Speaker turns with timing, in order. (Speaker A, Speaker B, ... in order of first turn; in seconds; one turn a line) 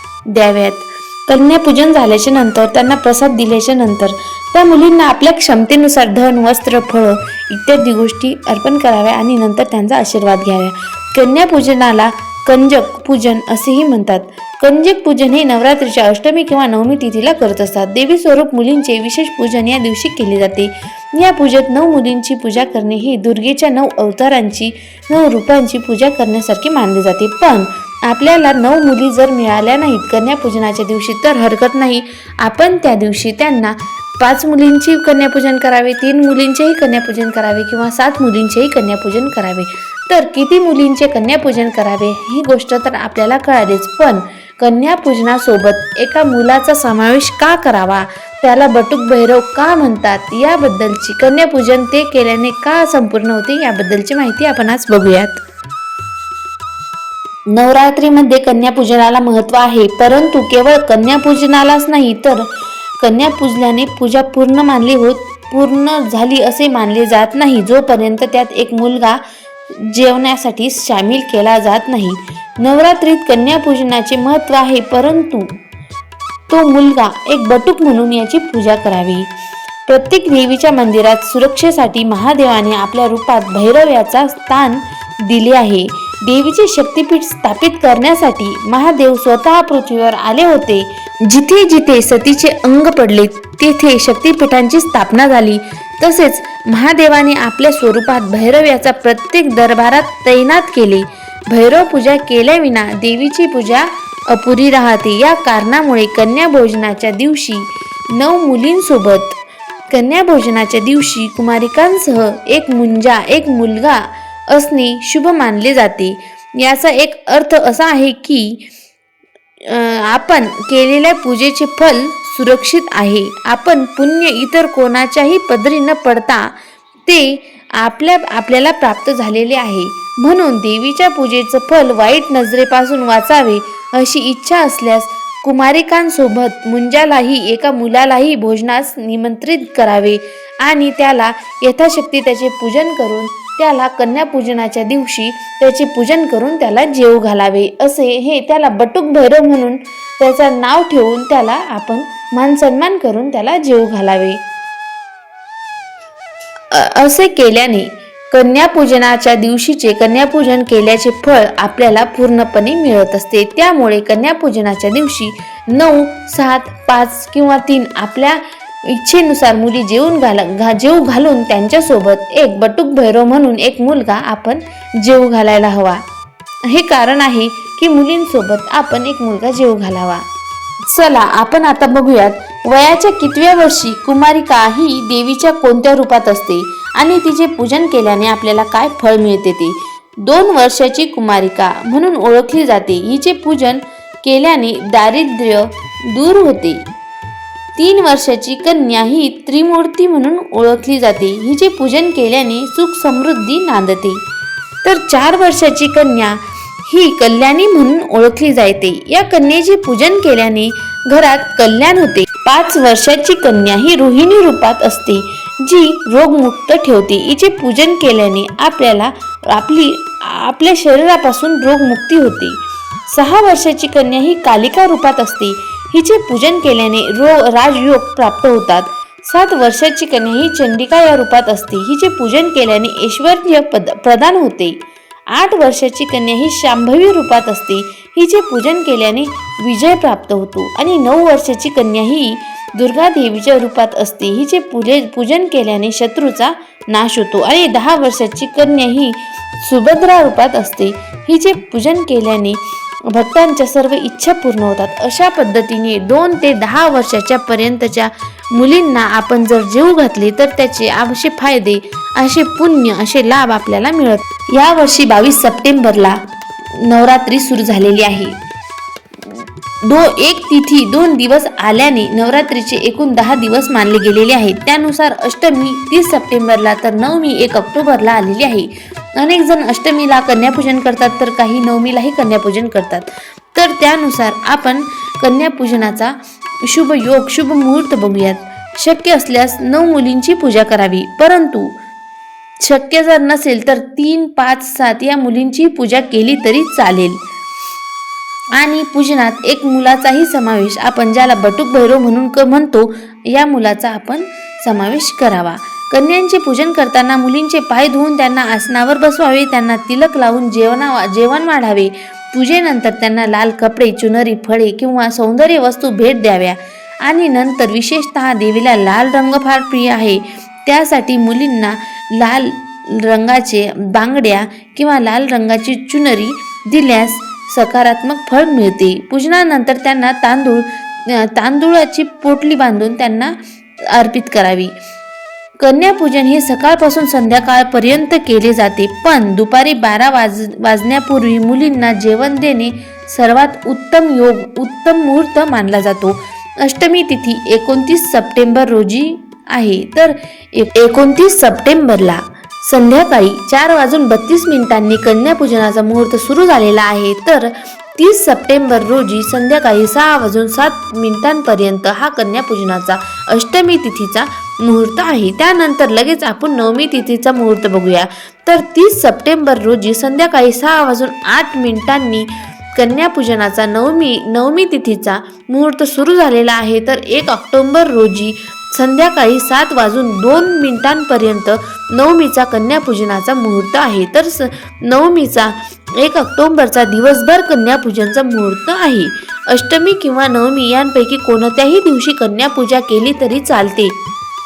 Speaker A: 0.3-55.4
Speaker A: 57.5-62.5
Speaker A: 63.0-69.2
Speaker A: 69.9-75.5
Speaker A: 76.5-79.2
Speaker A: 79.9-109.4
Speaker A: 109.9-118.6
Speaker A: 119.7-126.5
Speaker A: 127.1-154.4
Speaker A: 156.7-176.0
Speaker A: 176.7-180.2
Speaker A: 180.9-196.8
Speaker A: 197.8-204.2
Speaker A: 204.8-222.6
Speaker A: 223.1-234.8
Speaker A: 235.3-266.2
Speaker A: 266.8-268.3
Speaker A: 269.3-286.1
Speaker A: 286.6-291.7
Speaker A: 292.6-297.2
Speaker A: 298.6-333.4
Speaker A: 333.9-334.7
Speaker A: 335.6-393.9